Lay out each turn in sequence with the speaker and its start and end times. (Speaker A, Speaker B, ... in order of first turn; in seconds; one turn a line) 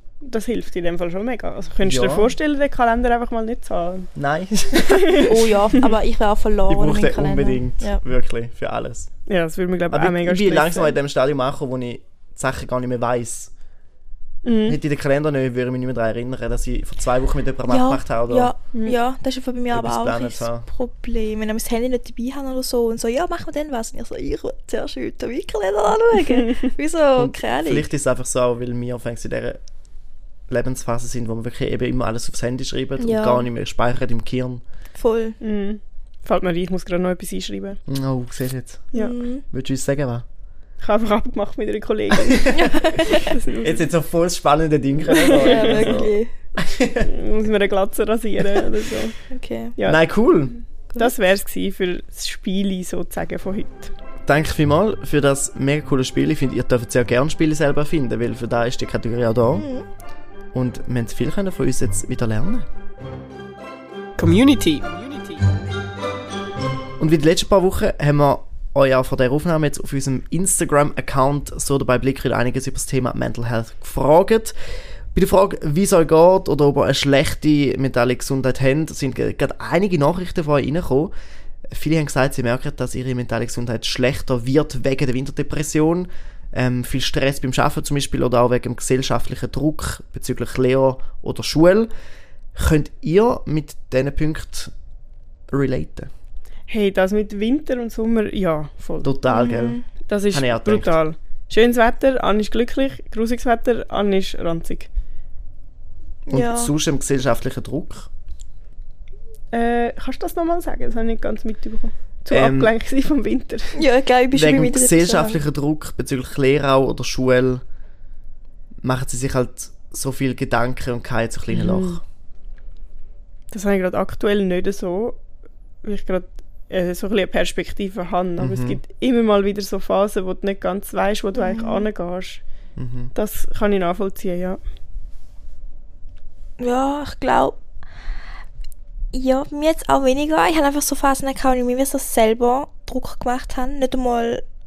Speaker A: 0.2-4.1
Speaker B: 1.8-2.3
Speaker B: 4.1-5.3
Speaker A: 4.9-5.8
Speaker C: 5.2-8.0
Speaker B: 6.7-9.1
Speaker A: 9.3-10.9
Speaker B: 9.9-13.5
Speaker A: 14.4-14.8
Speaker B: 14.7-18.5
Speaker C: 17.7-27.9
Speaker B: 19.7-20.7
Speaker A: 26.2-26.6
Speaker B: 27.2-29.6
Speaker B: 30.5-34.6
Speaker C: 33.0-33.5
Speaker C: 35.0-35.4
Speaker A: 35.4-37.8
Speaker B: 37.9-38.9
Speaker C: 38.9-39.4
Speaker B: 39.5-40.2
Speaker A: 40.8-43.9
Speaker B: 42.3-47.1
Speaker C: 42.5-43.3
Speaker A: 45.1-46.0
Speaker C: 45.3-46.3
Speaker A: 47.0-49.1
Speaker C: 49.3-49.7
Speaker B: 49.8-50.6
Speaker A: 51.0-53.9
Speaker B: 54.2-59.6
Speaker C: 59.5-59.9
Speaker B: 60.5-62.7
Speaker A: 64.2-65.4
Speaker B: 67.0-74.5
Speaker B: 75.1-81.1
Speaker B: 81.7-91.9
Speaker B: 92.5-94.7
Speaker B: 95.5-96.1
Speaker A: 96.7-99.1
Speaker B: 99.0-99.8
Speaker C: 99.3-99.8
Speaker A: 100.1-104.9
Speaker B: 100.3-101.0
Speaker C: 106.3-106.7
Speaker B: 106.3-108.1
Speaker A: 109.5-113.8
Speaker B: 112.3-112.7
Speaker C: 113.8-115.4
Speaker B: 114.3-117.6
Speaker B: 118.8-122.0
Speaker A: 121.5-122.0
Speaker A: 123.5-125.2
Speaker A: 125.8-132.4
Speaker B: 128.4-128.8
Speaker C: 131.3-131.9
Speaker B: 132.8-133.1
Speaker A: 133.1-134.6
Speaker C: 136.6-137.6
Speaker C: 139.1-144.4